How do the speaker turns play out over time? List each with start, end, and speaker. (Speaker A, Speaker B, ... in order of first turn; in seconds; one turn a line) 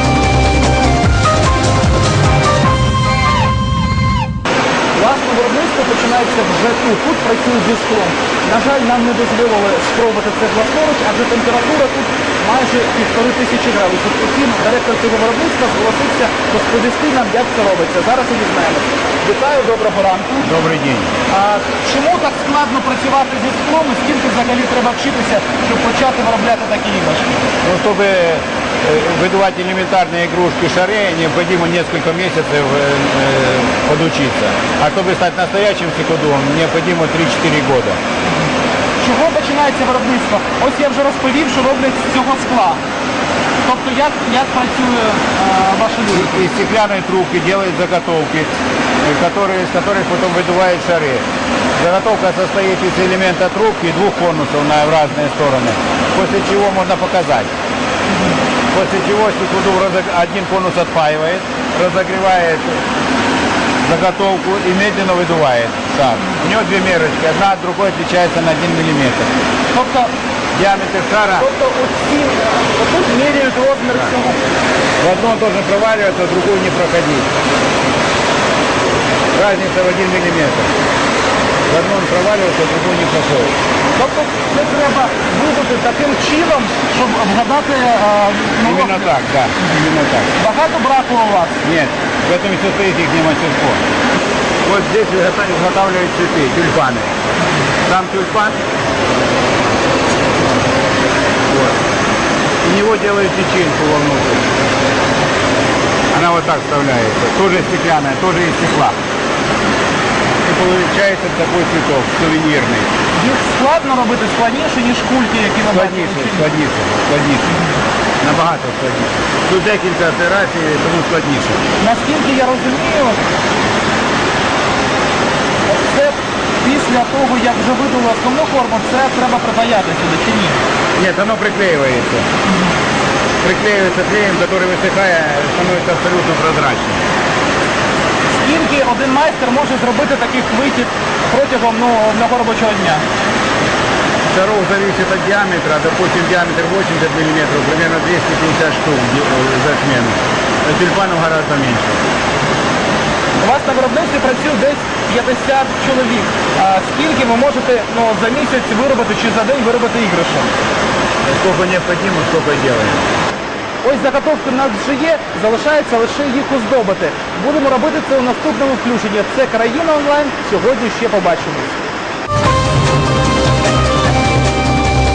Speaker A: 4.9-20.4
Speaker B: 20.4-21.1
Speaker A: 21.3-27.4
Speaker B: 27.6-38.0
Speaker A: 39.0-42.8
Speaker A: 43.6-46.5
Speaker B: 46.1-51.2
Speaker B: 51.8-57.5
Speaker B: 58.7-62.8
Speaker B: 63.8-69.3
Speaker A: 69.7-70.1
Speaker B: 70.5-71.5
Speaker A: 71.3-74.4
Speaker B: 75.0-77.3
Speaker B: 79.3-80.7
Speaker B: 81.7-83.6
Speaker A: 83.9-89.1
Speaker B: 88.6-90.3
Speaker A: 90.4-91.6
Speaker B: 91.6-93.8
Speaker B: 94.6-97.1
Speaker B: 97.8-98.6
Speaker B: 101.5-101.8
Speaker B: 102.6-104.5
Speaker B: 106.1-109.0
Speaker B: 110.4-112.9
Speaker A: 113.1-116.5
Speaker B: 115.7-117.6
Speaker B: 118.2-121.6
Speaker A: 121.8-123.2
Speaker A: 125.7-130.6
Speaker B: 130.9-132.3
Speaker B: 133.4-137.0
Speaker A: 138.3-143.0
Speaker B: 144.2-152.0
Speaker A: 153.4-160.5
Speaker B: 161.2-163.0
Speaker A: 163.8-171.9